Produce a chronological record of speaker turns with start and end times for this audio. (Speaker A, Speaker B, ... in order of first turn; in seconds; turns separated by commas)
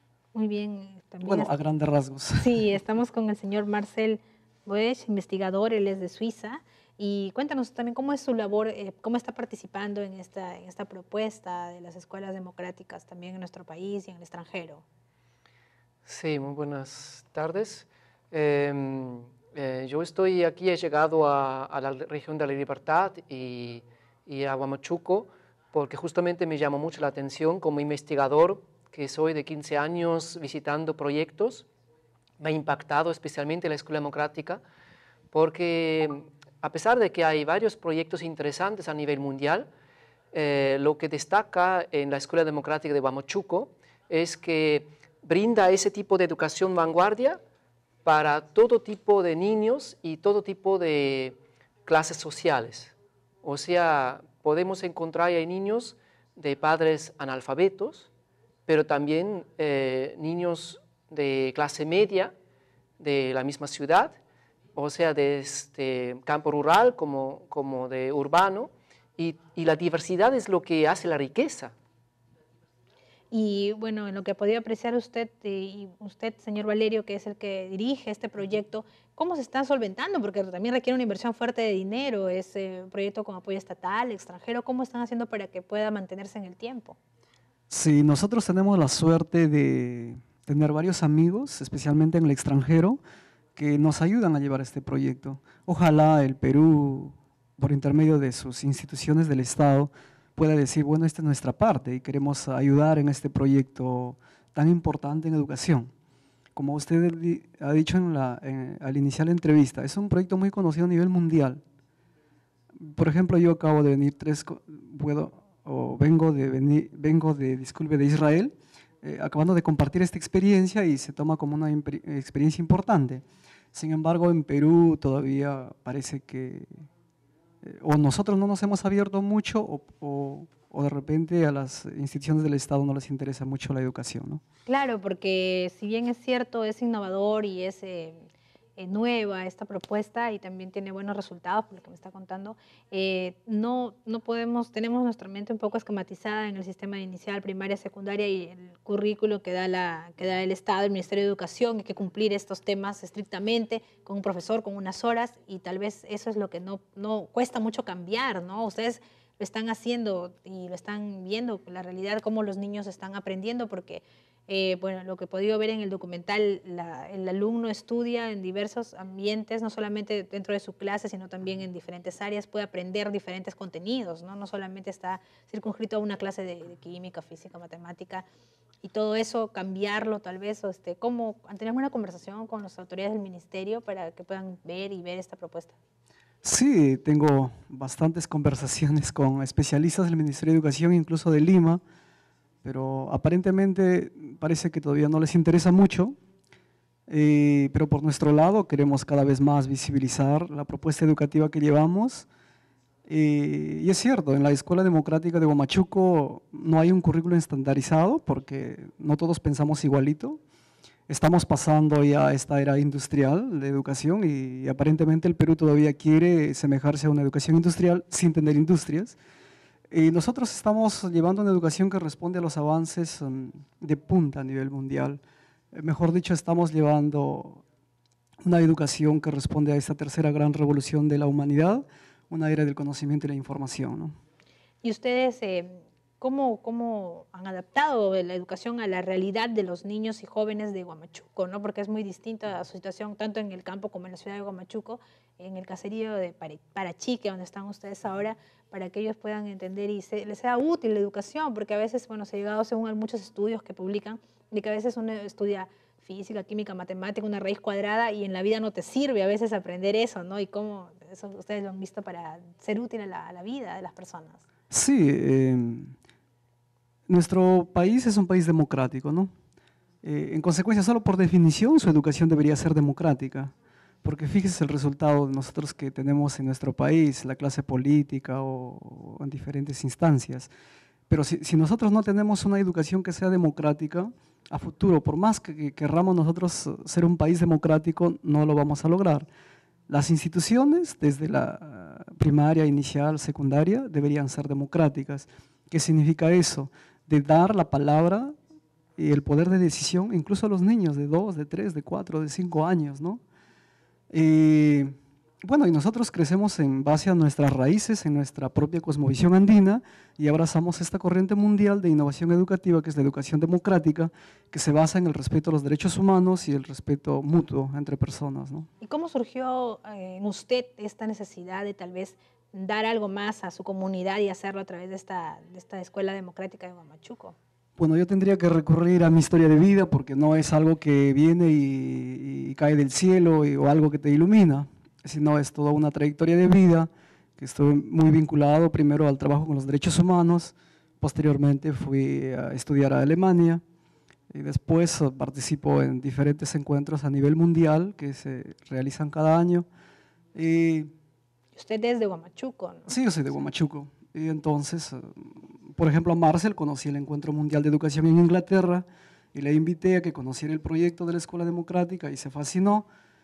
Speaker A: 0.3-1.5, Speaker B: 1.2-2.6, Speaker A: 2.4-14.8, Speaker C: 16.0-31.7, Speaker C: 32.4-34.6, Speaker C: 35.3-39.7, Speaker C: 40.3-47.4, Speaker C: 48.0-58.1, Speaker C: 58.7-62.3, Speaker C: 63.0-64.2, Speaker C: 64.7-71.7, Speaker A: 73.3-87.0, Speaker B: 87.7-93.0, Speaker B: 93.5-105.9, Speaker B: 106.5-111.6, Speaker B: 112.8-126.8, Speaker B: 127.6-134.4, Speaker A: 134.7-178.2, Speaker A: 178.8-185.8, Speaker B: 186.4-191.8, Speaker B: 192.6-196.1, Speaker B: 197.1-202.3, Speaker B: 203.1-210.4, Speaker B: 211.1-219.2, Speaker B: 219.9-225.2, Speaker B: 225.7-227.6, Speaker B: 228.4-234.2, Speaker A: 234.8-264.4, Speaker B: 264.7-265.9, Speaker B: 267.1-269.3, Speaker B: 270.0-273.5, Speaker B: 274.0-280.5, Speaker B: 281.1-289.3, Speaker B: 289.9-298.3, Speaker B: 299.0-303.2, Speaker B: 304.1-304.9, Speaker B: 305.4-318.7, Speaker A: 318.8-327.4, Speaker B: 327.8-343.6, Speaker B: 344.3-349.6, Speaker B: 350.3-350.9, Speaker A: 351.5-352.9, Speaker B: 352.9-362.9